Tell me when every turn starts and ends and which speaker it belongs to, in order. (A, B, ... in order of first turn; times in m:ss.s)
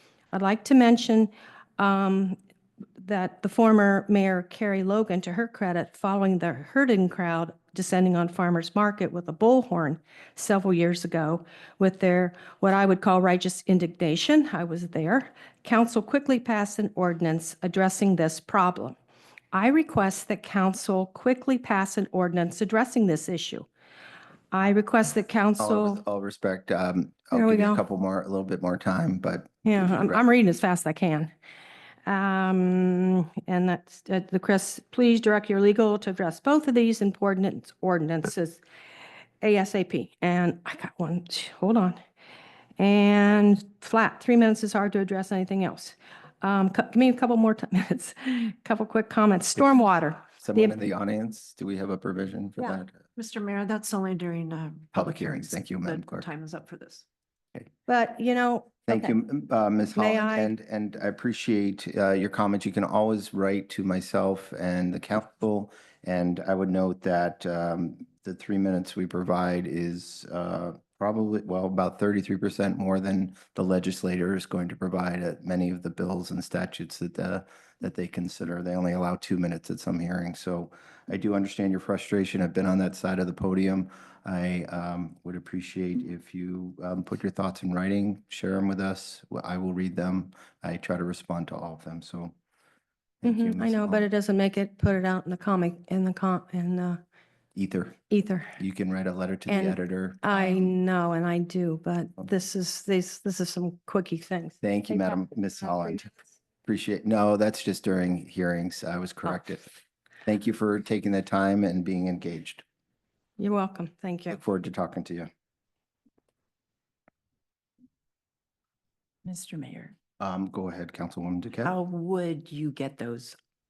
0:00.3-0:02.4 A
0:03.0-0:19.0 A
0:19.5-0:23.7 A
0:24.5-0:26.0 A
0:25.6-0:30.2 B
0:27.3-0:27.8 A
0:29.6-0:31.3 A
0:32.0-0:38.6 A
0:39.4-0:42.0 A
0:42.8-0:50.8 A
0:50.4-0:52.9 B
0:53.2-0:57.0 C
0:54.9-0:56.3 B
0:57.9-0:59.1 A
0:58.9-1:32.3 B
1:00.0-1:00.5 A
1:33.2-1:34.1 B
1:33.2-1:37.0 A
1:37.5-1:38.0 B
1:38.1-1:38.6 A
1:38.6-1:40.5 B
1:39.5-1:46.0 A
1:44.6-1:46.1 B
1:46.6-1:49.7 B
1:50.2-1:52.6 B
1:53.4-1:54.4 A
1:54.3-1:55.3 B
1:59.2-2:00.0 D
2:00.2-2:01.7 B
2:01.6-2:03.4 D